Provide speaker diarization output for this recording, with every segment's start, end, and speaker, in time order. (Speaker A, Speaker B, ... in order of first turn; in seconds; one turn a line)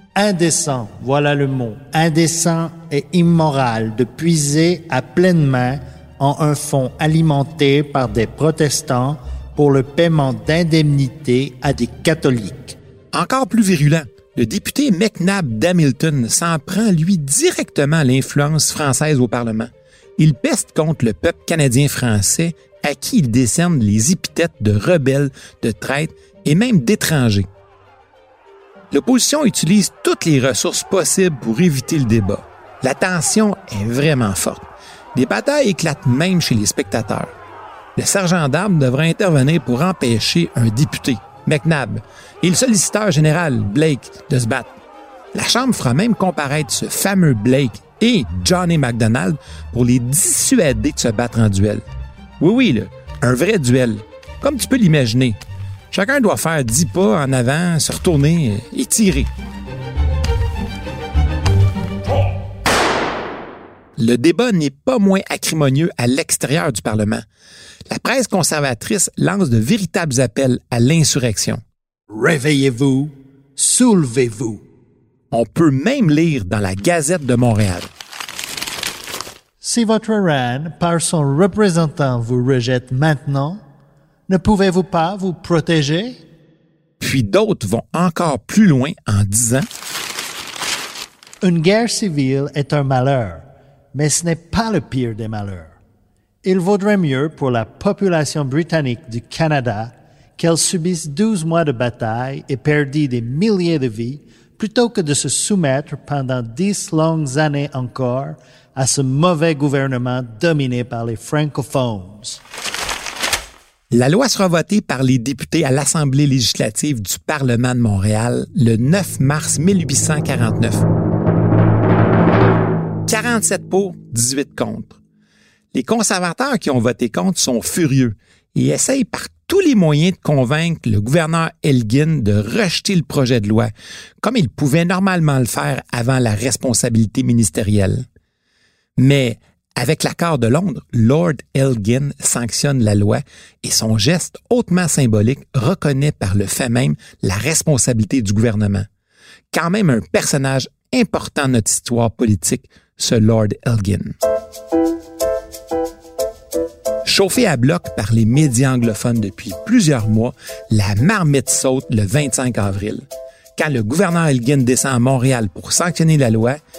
Speaker A: 0.2-12.8
Speaker B: 13.1-27.5
Speaker B: 28.9-37.3
Speaker B: 38.0-44.7
Speaker B: 45.3-51.8
Speaker B: 52.4-55.4
Speaker B: 55.9-59.3
Speaker B: 64.0-67.2
Speaker B: 67.9-71.6
Speaker A: 72.1-74.6
Speaker B: 75.3-77.9
Speaker A: 79.6-83.6
Speaker A: 84.3-86.2
Speaker B: 87.0-89.7
Speaker A: 91.4-95.8
Speaker A: 96.4-112.4
Speaker B: 113.9-120.8
Speaker B: 123.1-125.0
Speaker B: 125.7-138.1
Speaker B: 139.0-148.9
Speaker B: 149.5-154.2
Speaker B: 157.1-163.1
Speaker B: 163.6-166.6